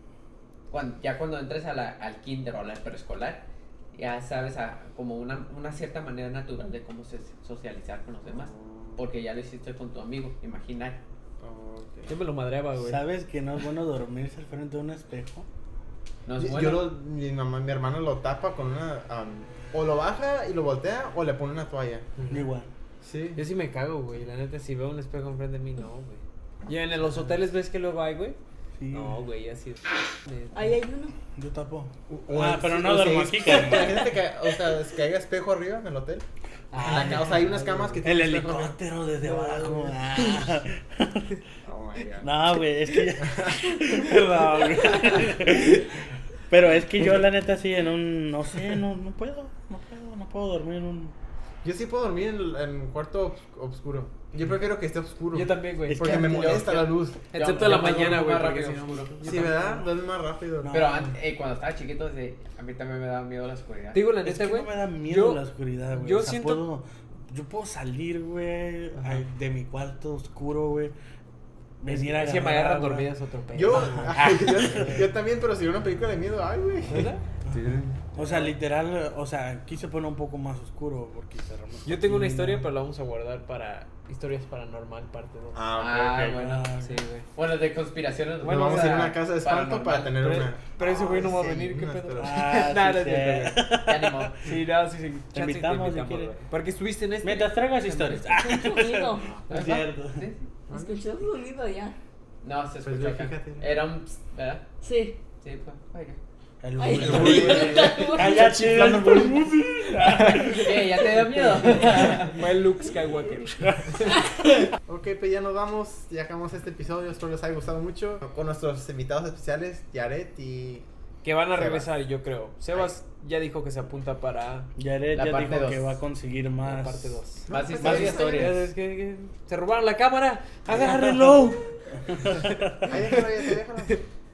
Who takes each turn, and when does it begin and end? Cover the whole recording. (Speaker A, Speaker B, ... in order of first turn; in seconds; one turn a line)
Speaker A: 0.7-11.0
Speaker B: 8.3-9.0
Speaker B: 11.4-12.2
Speaker C: 12.1-13.0
Speaker D: 12.8-15.5
Speaker A: 16.2-16.9
Speaker B: 16.4-22.1
Speaker C: 22.2-22.4
Speaker D: 22.3-22.7
Speaker B: 23.0-23.4
Speaker C: 23.3-28.4
Speaker D: 28.8-29.2
Speaker C: 28.9-30.7
Speaker E: 30.5-31.2
Speaker D: 31.3-34.2
Speaker B: 32.1-36.2
Speaker C: 36.7-38.1
Speaker B: 36.8-38.8
Speaker D: 36.9-37.2
Speaker D: 38.0-41.3
Speaker B: 41.6-42.3
Speaker D: 42.2-45.9
Speaker B: 43.2-44.2
Speaker D: 46.5-51.1
Speaker B: 51.6-57.3
Speaker C: 55.3-59.7
Speaker D: 55.9-56.7
Speaker A: 57.3-59.5
Speaker D: 57.6-58.2
Speaker D: 59.2-59.6
Speaker B: 59.2-60.8
Speaker D: 60.6-61.1
Speaker A: 60.7-64.0
Speaker C: 63.9-66.7
Speaker D: 64.2-70.9
Speaker D: 71.8-73.1
Speaker C: 71.9-74.9
Speaker B: 73.5-78.0
Speaker D: 73.7-75.1
Speaker C: 76.8-77.2
Speaker D: 77.4-82.7
Speaker C: 78.2-78.5
Speaker C: 81.8-85.6
Speaker B: 85.5-86.4
Speaker A: 85.8-86.7
Speaker D: 86.3-87.0
Speaker C: 86.7-87.3
Speaker A: 87.3-90.4
Speaker C: 88.4-89.2
Speaker B: 88.4-92.4
Speaker C: 90.2-93.7
Speaker D: 92.2-94.3
Speaker A: 93.8-94.4
Speaker C: 94.4-98.4
Speaker D: 95.3-96.3
Speaker D: 97.2-100.2
Speaker E: 98.4-99.3
Speaker A: 99.5-100.5
Speaker B: 100.7-101.0
Speaker E: 100.7-101.9
Speaker A: 102.4-104.7
Speaker B: 102.8-103.8
Speaker E: 104.8-105.2
Speaker A: 105.4-106.2
Speaker D: 106.6-112.2
Speaker E: 106.8-108.4
Speaker B: 106.9-109.5
Speaker C: 108.5-109.3
Speaker C: 110.2-114.2
Speaker A: 110.4-112.3
Speaker D: 113.6-114.0
Speaker E: 114.2-114.5
Speaker B: 114.8-120.8
Speaker C: 121.2-124.7
Speaker B: 121.5-121.9
Speaker D: 124.8-127.2
Speaker A: 125.1-125.9
Speaker C: 126.6-131.5
Speaker B: 127.5-128.1
Speaker A: 127.5-128.7
Speaker D: 127.8-128.6
Speaker D: 130.7-133.0
Speaker C: 132.4-132.9
Speaker B: 132.8-134.0